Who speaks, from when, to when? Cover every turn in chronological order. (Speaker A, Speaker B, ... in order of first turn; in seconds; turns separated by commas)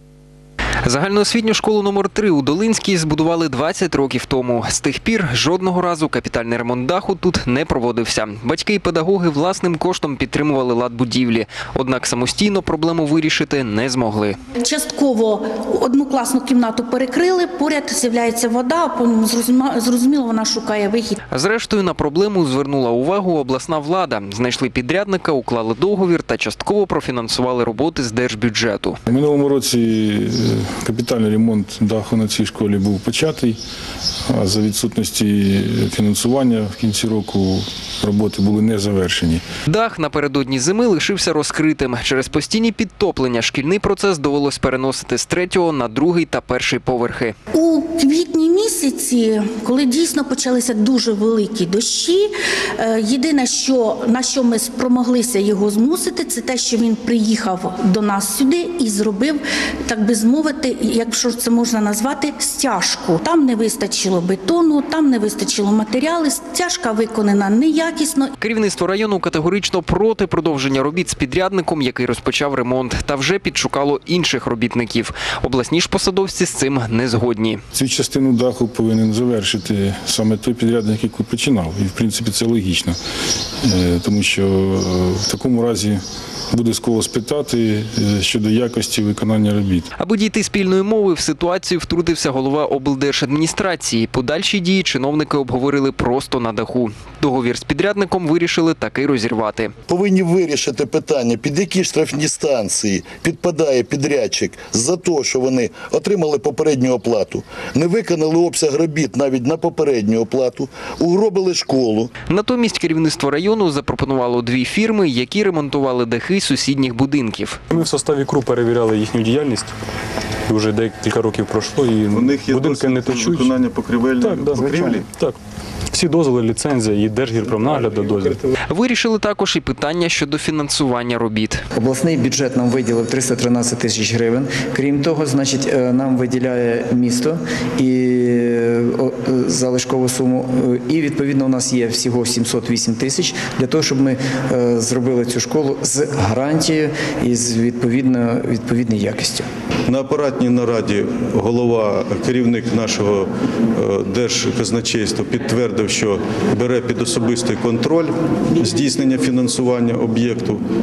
Speaker A: 0.8-14.4, Speaker B: 14.6-21.1, Speaker A: 21.3-29.0, Speaker C: 29.1-33.6, Speaker C: 34.3-39.4, Speaker A: 39.7-47.3, Speaker B: 47.5-68.3, Speaker A: 68.4-77.6, Speaker C: 77.7-83.0, Speaker C: 83.6-86.0, Speaker C: 86.5-89.9, Speaker A: 90.0-99.7, Speaker D: 99.9-112.1, Speaker A: 112.3-117.6, Speaker E: 117.7-119.7, Speaker E: 120.5-123.5, Speaker F: 122.1-125.1, Speaker E: 124.2-125.4, Speaker E: 125.9-128.5, Speaker A: 128.7-131.6, Speaker G: 131.7-149.4, Speaker F: 149.9-160.6